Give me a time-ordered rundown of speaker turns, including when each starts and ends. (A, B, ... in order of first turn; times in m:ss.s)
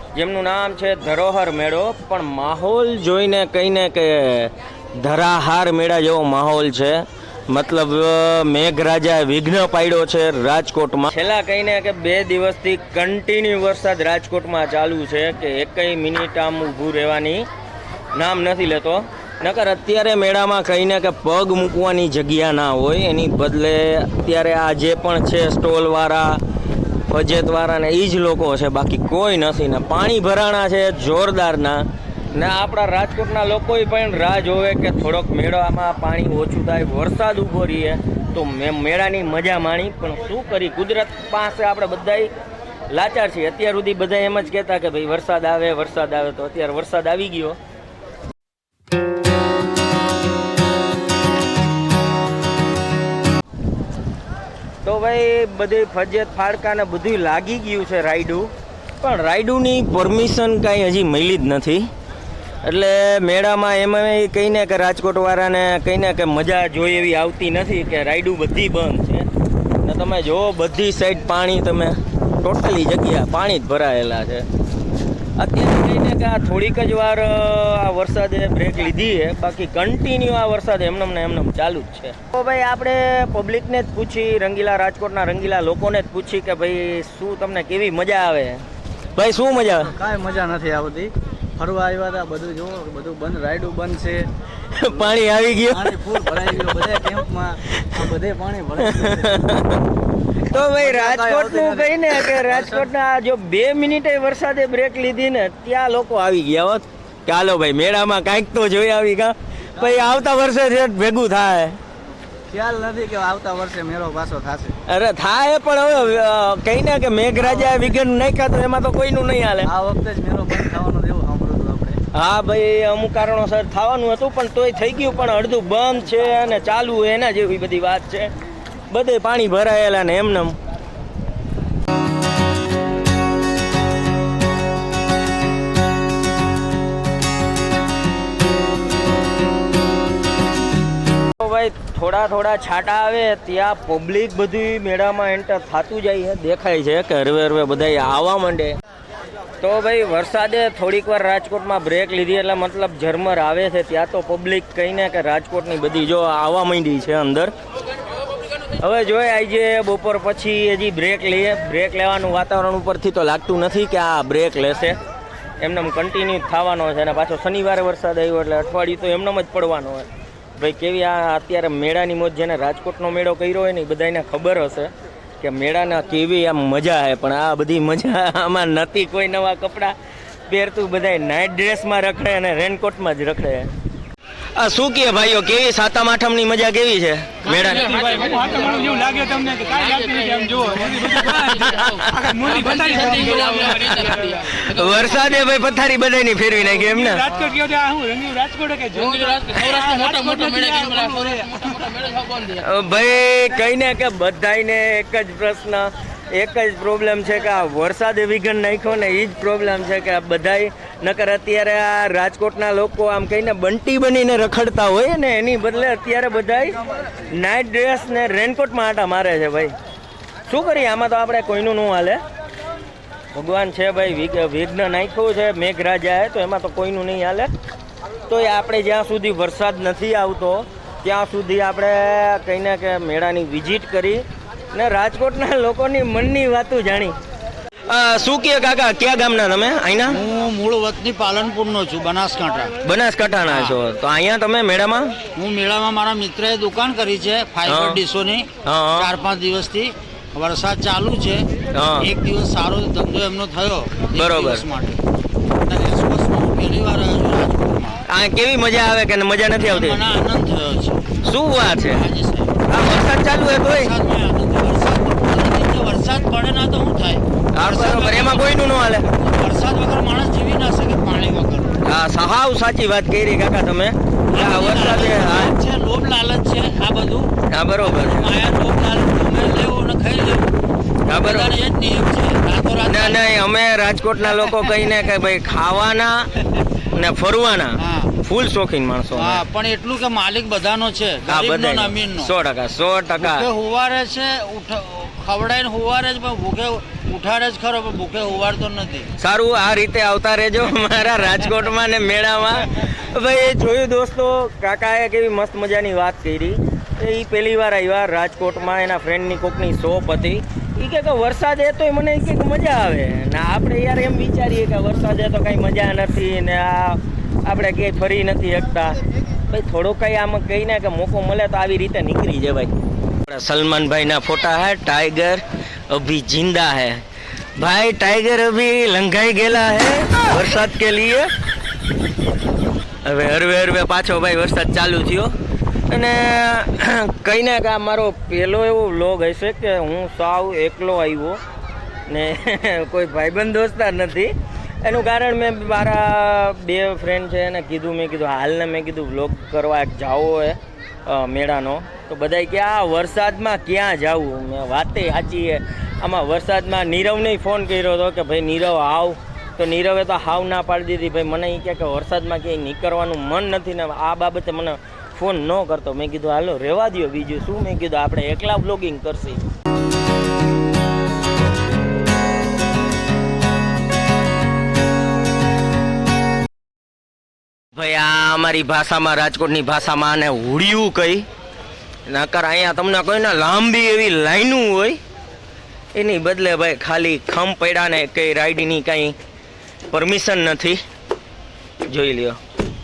0:00.2-0:17.5 A
0:18.1-0:26.4 A
0:27.1-0:42.3 A
0:42.9-0:47.6 A
0:54.8-1:01.9 A
1:02.6-1:09.3 A
1:09.8-1:14.5 A
1:15.4-1:28.6 A
1:29.2-1:29.9 A
1:29.8-1:34.3 B
1:34.7-1:36.0 A
1:35.7-1:39.4 B
1:38.8-1:39.8 A
1:40.5-1:51.8 A
1:40.5-1:42.9 B
1:49.8-1:50.2 B
1:52.5-1:54.7 B
1:54.9-1:59.7 A
1:59.6-2:02.0 B
2:02.1-2:08.3 A
2:08.9-2:10.6 A
2:21.4-2:28.8 A
2:29.6-2:37.5 A
2:38.8-2:45.0 A
2:45.6-3:00.0 A
3:00.5-3:03.7 A
3:04.6-3:08.1 A
3:07.8-3:14.5 C
3:11.3-3:12.1 A
3:13.7-3:17.3 A
3:17.3-3:22.5 C
3:22.5-3:39.7 A
3:40.5-3:42.2 A
3:43.3-3:47.5 A
3:48.3-3:57.2 A
3:57.9-4:00.2 A
4:00.1-4:02.7 D
4:02.8-4:05.1 A
4:03.4-4:03.8 D
4:05.4-4:11.5 D
4:07.6-4:08.0 A
4:08.6-4:09.1 A
4:11.7-4:12.1 A
4:12.0-4:15.0 D
4:14.1-4:14.7 A
4:15.6-4:18.0 D
4:18.1-4:20.0 A
4:19.6-4:21.2 D
4:21.2-4:22.0 A
4:21.7-4:22.7 D
4:22.7-4:23.9 A
4:23.6-4:31.8 D
4:27.5-4:29.1 A
4:31.8-4:35.6 A
4:34.3-4:40.5 D
4:37.5-4:38.3 A
4:41.0-4:41.6 A
4:41.1-4:43.4 D
4:42.8-4:49.4 A
4:47.8-4:48.2 D
4:49.1-4:52.3 D
4:51.3-4:53.5 A
4:53.2-4:59.1 D
4:59.2-5:22.7 A
5:23.2-5:27.0 A
5:27.6-5:31.3 A
5:33.0-5:35.3 A
5:35.9-5:41.4 A
5:42.1-6:09.4 A
6:17.8-6:21.3 A
6:22.1-6:25.0 A
6:26.0-6:29.2 A
6:29.9-6:30.8 A
6:31.9-6:32.4 A